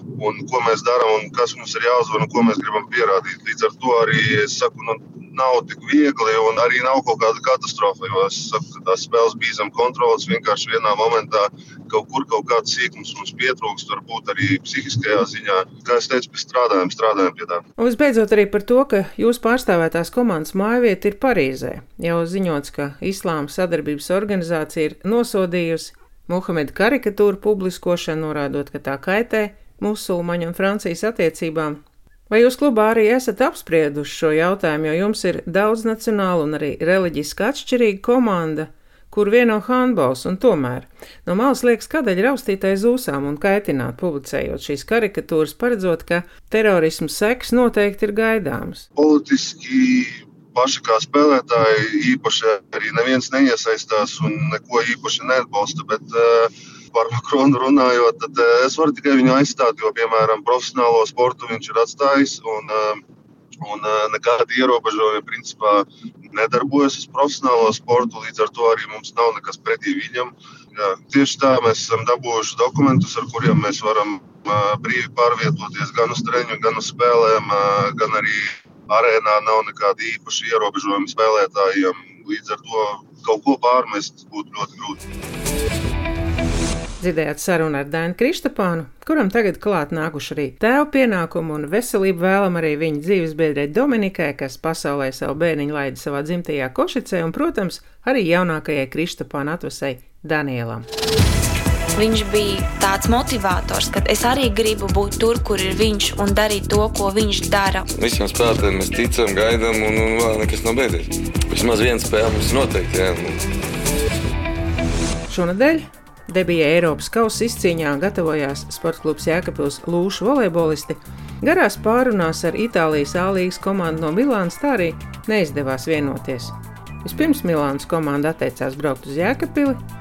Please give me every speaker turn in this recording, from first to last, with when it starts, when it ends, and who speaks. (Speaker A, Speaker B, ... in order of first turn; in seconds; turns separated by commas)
Speaker A: 0.2-17.6, Speaker B: 17.8-48.8, Speaker A: 49.0-63.0, Speaker A: 63.6-85.0, Speaker B: 87.0-100.9, Speaker C: 101.9-107.9, Speaker D: 107.9-113.4, Speaker B: 115.3-129.8